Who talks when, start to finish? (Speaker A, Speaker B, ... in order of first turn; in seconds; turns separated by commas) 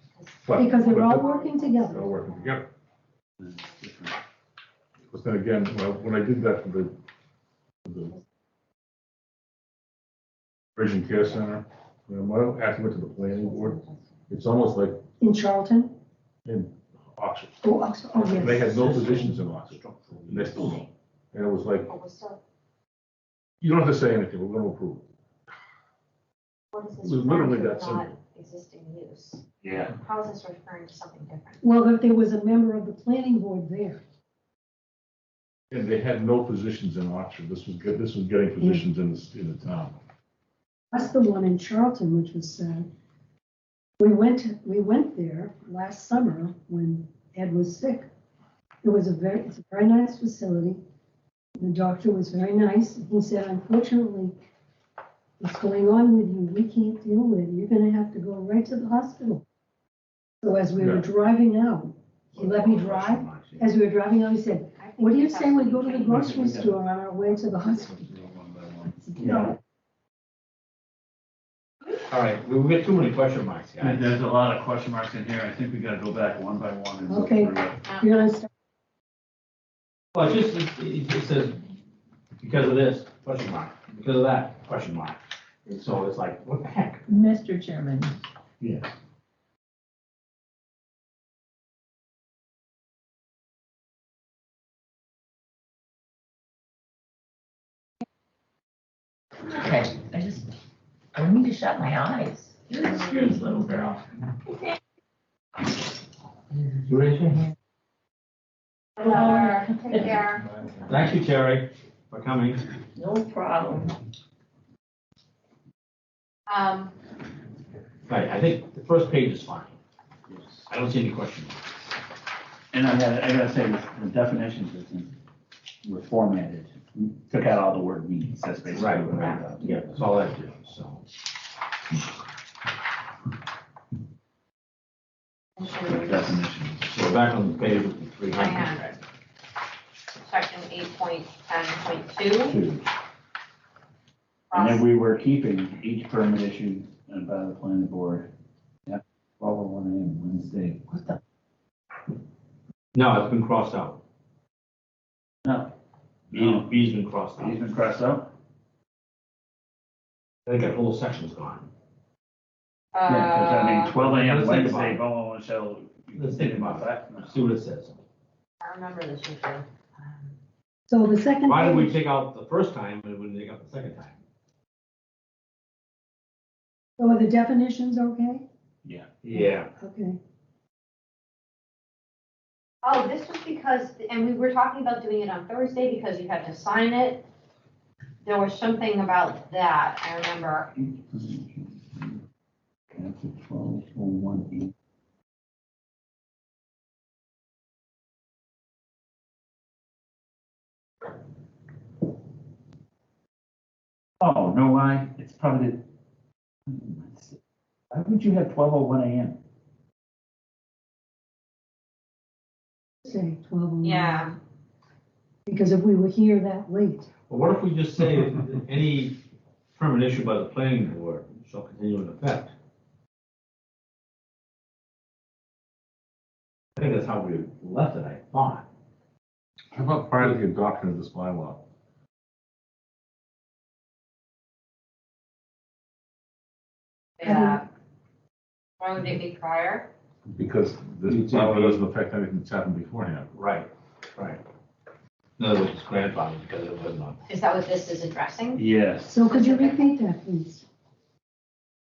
Speaker A: 0.2-2.5, Speaker B: 0.4-2.7, Speaker C: 0.5-2.1, Speaker D: 3.4-4.2, Speaker B: 5.1-6.9, Speaker B: 7.8-8.1, Speaker B: 10.8-13.8, Speaker A: 13.2-14.0, Speaker B: 14.3-15.0, Speaker C: 15.2-15.9, Speaker B: 16.4-17.6, Speaker C: 17.6-18.6, Speaker E: 18.1-20.9, Speaker B: 18.3-21.9, Speaker A: 21.9-22.4, Speaker B: 23.6-25.1, Speaker A: 26.7-31.6, Speaker B: 27.0-28.1, Speaker D: 29.6-29.9, Speaker C: 31.6-34.0, Speaker B: 35.7-40.0, Speaker C: 38.6-38.8, Speaker C: 40.9-42.9, Speaker C: 44.0-48.1, Speaker C: 48.8-50.8, Speaker C: 51.6-54.3, Speaker C: 55.4-59.4, Speaker C: 60.4-68.1, Speaker B: 60.8-61.0, Speaker E: 62.4-63.7, Speaker A: 64.8-66.4, Speaker D: 66.0-69.5, Speaker C: 69.1-69.6, Speaker E: 72.1-74.2, Speaker D: 73.8-77.8, Speaker C: 77.1-78.5, Speaker E: 80.1-81.6, Speaker E: 82.4-87.0, Speaker F: 87.1-88.2, Speaker F: 99.4-100.5, Speaker F: 101.2-104.0, Speaker E: 102.9-103.6, Speaker E: 106.9-107.5, Speaker A: 109.0-110.4, Speaker F: 109.1-110.2, Speaker B: 110.1-110.9, Speaker E: 110.9-112.7, Speaker F: 113.0-113.9, Speaker A: 116.5-116.9, Speaker E: 118.1-119.8, Speaker E: 120.7-121.6, Speaker D: 122.7-125.1, Speaker D: 125.8-129.8, Speaker E: 128.7-131.0, Speaker A: 129.1-129.4, Speaker A: 135.6-136.4, Speaker D: 135.9-136.9, Speaker E: 136.9-139.0, Speaker A: 138.2-138.9, Speaker A: 140.2-142.6, Speaker D: 142.4-142.9, Speaker A: 144.5-144.8, Speaker D: 144.5-148.3, Speaker D: 148.9-151.2, Speaker E: 152.9-154.0, Speaker D: 155.4-155.7, Speaker D: 156.3-158.3, Speaker E: 156.3-157.6, Speaker E: 160.4-161.7, Speaker A: 162.9-163.9, Speaker D: 163.1-167.4, Speaker E: 163.9-165.0, Speaker E: 166.1-168.0, Speaker A: 168.6-169.6, Speaker C: 170.9-171.9, Speaker E: 171.4-174.2, Speaker C: 177.0-178.4, Speaker E: 179.2-179.7, Speaker C: 179.3-180.2, Speaker A: 182.8-187.2, Speaker A: 188.2-190.7, Speaker D: 190.8-192.2, Speaker D: 192.9-194.7, Speaker D: 204.2-205.8, Speaker D: 206.7-207.4, Speaker D: 207.9-209.4, Speaker C: 213.0-214.4, Speaker A: 213.8-214.3, Speaker C: 215.4-217.1, Speaker E: 217.3-219.2, Speaker E: 219.8-222.5, Speaker E: 226.8-228.6, Speaker B: 229.7-231.6, Speaker A: 237.2-237.7, Speaker C: 237.2-237.6, Speaker A: 238.8-239.9, Speaker B: 240.3-243.3, Speaker D: 241.1-241.5, Speaker E: 241.1-241.8, Speaker E: 243.3-244.4, Speaker E: 245.4-247.3, Speaker A: 247.3-248.6, Speaker D: 248.5-249.1, Speaker C: 249.0-250.6, Speaker A: 249.3-249.8